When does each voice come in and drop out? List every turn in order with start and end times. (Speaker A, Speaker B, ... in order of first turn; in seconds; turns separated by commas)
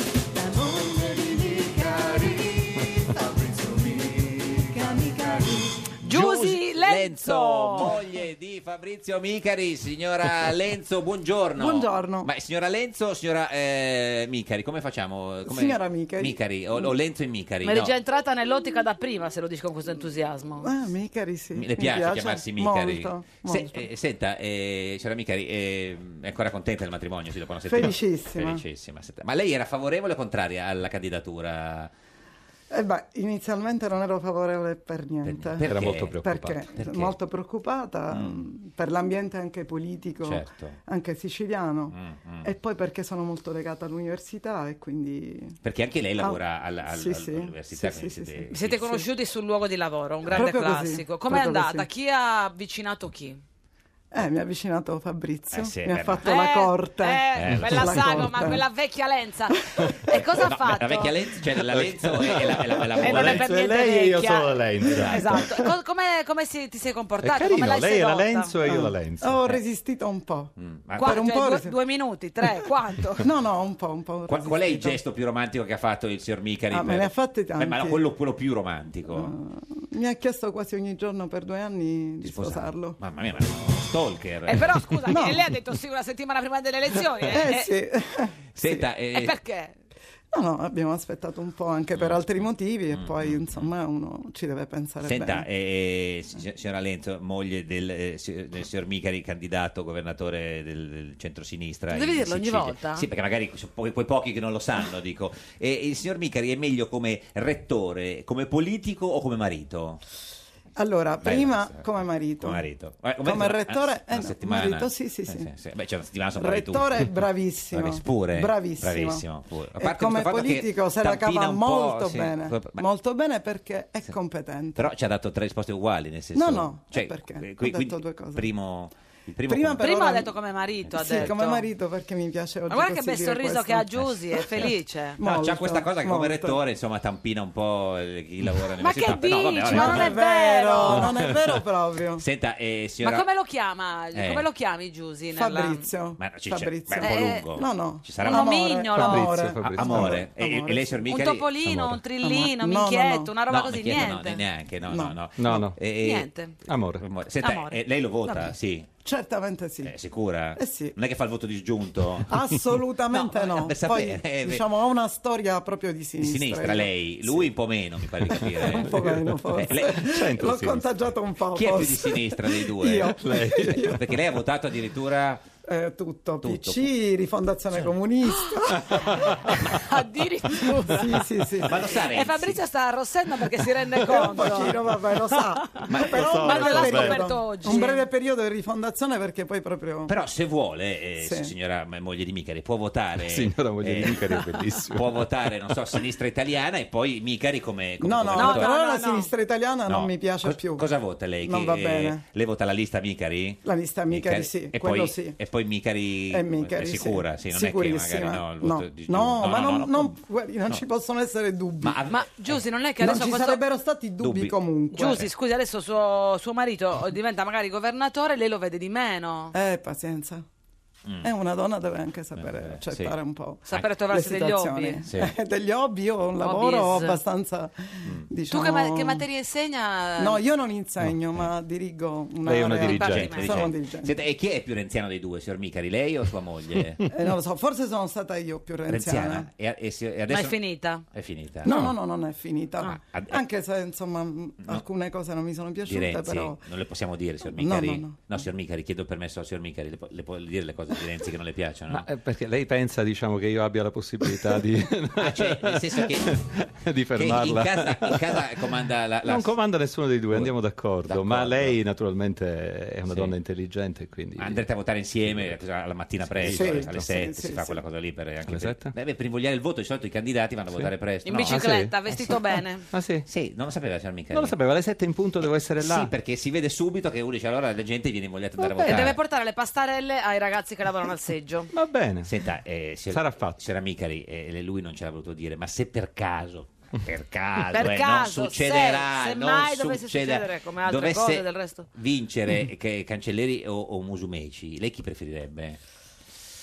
Speaker A: 0.3-5.8, Speaker B: 6.0-7.9, Speaker C: 6.0-17.9, Speaker D: 11.6-12.3, Speaker D: 15.4-16.9, Speaker B: 17.6-20.7, Speaker D: 20.6-23.9, Speaker C: 21.6-31.9, Speaker D: 27.7-28.6, Speaker D: 32.7-35.6, Speaker C: 35.2-37.2, Speaker E: 35.6-36.7, Speaker D: 36.1-45.6, Speaker C: 38.1-38.4, Speaker C: 40.2-40.8, Speaker C: 41.9-42.5, Speaker C: 45.6-49.0, Speaker D: 46.2-48.5, Speaker B: 48.5-53.4, Speaker D: 50.3-51.9, Speaker D: 54.1-58.6, Speaker C: 55.5-56.6, Speaker B: 56.2-61.1, Speaker C: 57.4-58.4, Speaker C: 60.4-63.5, Speaker E: 61.7-65.6, Speaker B: 63.0-68.5, Speaker E: 67.2-69.6, Speaker D: 68.6-71.8, Speaker C: 70.6-71.4, Speaker B: 71.0-73.2, Speaker D: 73.2-75.0, Speaker C: 74.3-79.3, Speaker D: 76.7-78.0, Speaker D: 79.1-83.0, Speaker C: 82.2-85.2, Speaker B: 84.5-87.7, Speaker D: 85.1-85.4, Speaker D: 87.3-88.9, Speaker C: 88.6-89.4, Speaker B: 89.1-89.8, Speaker D: 90.3-95.5, Speaker C: 91.9-93.7, Speaker C: 95.0-110.0, Speaker B: 101.9-103.0, Speaker D: 110.8-112.7, Speaker C: 111.2-117.1, Speaker D: 113.2-115.5, Speaker D: 116.3-119.2, Speaker C: 117.7-122.8, Speaker D: 119.8-124.9, Speaker C: 124.8-129.9, Speaker D: 126.3-128.5, Speaker D: 129.4-130.3, Speaker B: 129.8-131.7, Speaker D: 131.0-133.9, Speaker C: 131.0-131.4, Speaker B: 132.7-135.2, Speaker D: 135.2-136.6, Speaker C: 135.2-140.2, Speaker B: 138.8-141.1, Speaker D: 139.7-142.2, Speaker E: 140.9-141.6, Speaker C: 142.2-143.3, Speaker B: 143.0-145.9, Speaker C: 144.2-144.5, Speaker D: 145.3-151.1, Speaker C: 146.2-151.6, Speaker B: 147.0-147.5, Speaker B: 148.2-149.3, Speaker E: 148.9-150.2, Speaker B: 151.1-154.4, Speaker E: 151.7-152.0, Speaker D: 152.2-153.3, Speaker C: 153.5-156.3, Speaker D: 154.8-155.2, Speaker E: 155.4-155.8, Speaker B: 156.0-156.6, Speaker E: 156.7-157.0, Speaker C: 157.0-158.9, Speaker B: 157.4-157.8, Speaker D: 159.0-159.9, Speaker C: 159.8-162.3, Speaker D: 160.6-160.9, Speaker D: 162.3-167.5, Speaker C: 163.1-164.7, Speaker C: 166.2-170.1, Speaker D: 168.3-174.0, Speaker E: 168.9-170.9, Speaker C: 171.5-175.4, Speaker E: 173.0-174.0, Speaker D: 175.6-179.5, Speaker C: 176.4-176.9, Speaker B: 178.4-181.1, Speaker E: 178.9-179.3, Speaker D: 180.9-181.8, Speaker C: 181.7-182.6, Speaker B: 182.1-184.8, Speaker D: 184.1-190.1, Speaker B: 185.8-188.1, Speaker C: 185.9-186.4, Speaker E: 186.0-187.3, Speaker C: 190.1-199.0, Speaker D: 191.2-191.5, Speaker E: 193.2-195.3, Speaker D: 198.0-200.9, Speaker B: 198.4-199.3, Speaker C: 199.9-210.8, Speaker D: 201.4-202.2, Speaker D: 203.6-205.4, Speaker D: 206.3-212.0, Speaker C: 211.8-212.5, Speaker B: 212.1-213.6, Speaker D: 213.0-215.2, Speaker C: 214.2-215.3, Speaker B: 214.9-219.5, Speaker D: 219.5-220.4, Speaker D: 221.2-229.2, Speaker C: 222.3-223.2, Speaker B: 223.7-225.0, Speaker C: 225.1-225.3, Speaker B: 226.4-227.2, Speaker B: 228.5-230.4, Speaker D: 230.2-234.1, Speaker E: 231.0-231.3, Speaker E: 232.4-233.7, Speaker B: 232.8-233.6, Speaker C: 232.9-237.0, Speaker E: 237.1-237.3, Speaker D: 237.1-239.5, Speaker C: 238.9-241.8, Speaker B: 240.3-241.0, Speaker D: 241.7-246.6, Speaker E: 241.7-242.0, Speaker C: 242.8-243.4, Speaker C: 245.9-252.1, Speaker D: 247.5-248.4, Speaker E: 251.9-258.4, Speaker C: 255.2-256.4, Speaker C: 257.1-259.6, Speaker E: 259.2-264.7, Speaker C: 260.3-261.8, Speaker C: 263.1-263.3, Speaker C: 264.4-272.4, Speaker E: 265.2-265.6, Speaker E: 266.2-267.1, Speaker D: 266.5-267.8, Speaker E: 268.5-268.9, Speaker B: 271.2-272.9, Speaker E: 271.5-273.3, Speaker C: 273.3-274.6, Speaker E: 274.3-276.1, Speaker C: 275.4-279.2, Speaker E: 278.6-279.1, Speaker B: 278.9-281.7, Speaker E: 281.7-282.3, Speaker C: 282.3-295.8, Speaker E: 283.1-283.6, Speaker B: 287.7-291.9